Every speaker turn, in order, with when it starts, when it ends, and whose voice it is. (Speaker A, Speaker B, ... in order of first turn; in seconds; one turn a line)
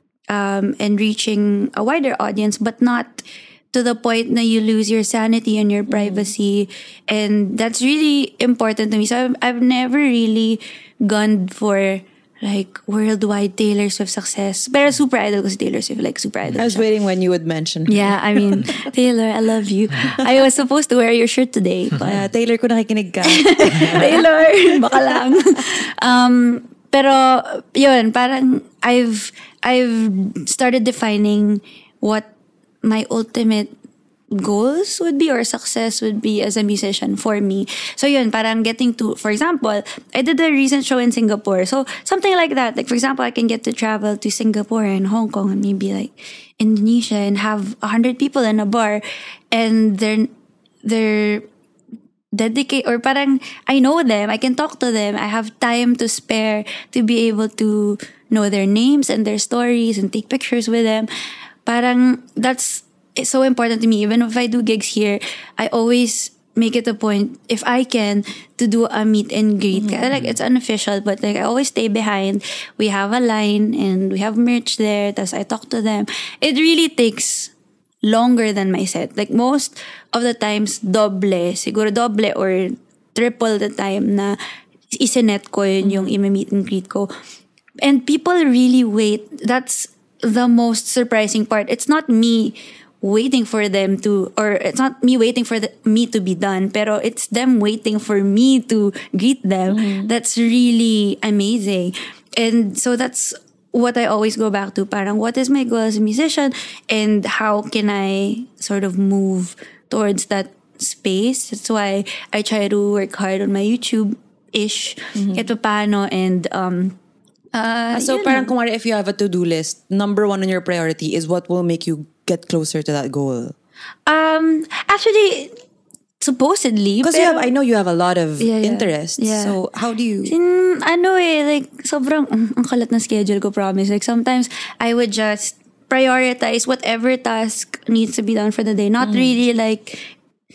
Speaker A: 0.3-16.8
Speaker B: 5.9-6.3
Speaker B: 16.6-18.9
Speaker A: 17.9-22.1
Speaker B: 22.0-25.2
Speaker A: 23.2-32.3
Speaker A: 32.8-33.7
Speaker A: 34.3-50.3
Speaker A: 50.8-51.5
Speaker A: 52.3-61.1
Speaker A: 61.6-77.5
Speaker B: 69.7-70.1
Speaker A: 78.0-84.4
Speaker A: 84.9-87.1
Speaker B: 85.8-86.2
Speaker A: 87.8-117.0
Speaker B: 99.7-100.1
Speaker B: 115.2-115.5
Speaker A: 117.5-118.5
Speaker B: 117.9-123.5
Speaker A: 124.1-125.6
Speaker A: 126.2-127.5
Speaker B: 127.0-130.3
Speaker A: 128.4-129.6
Speaker A: 130.2-140.1
Speaker B: 139.0-139.4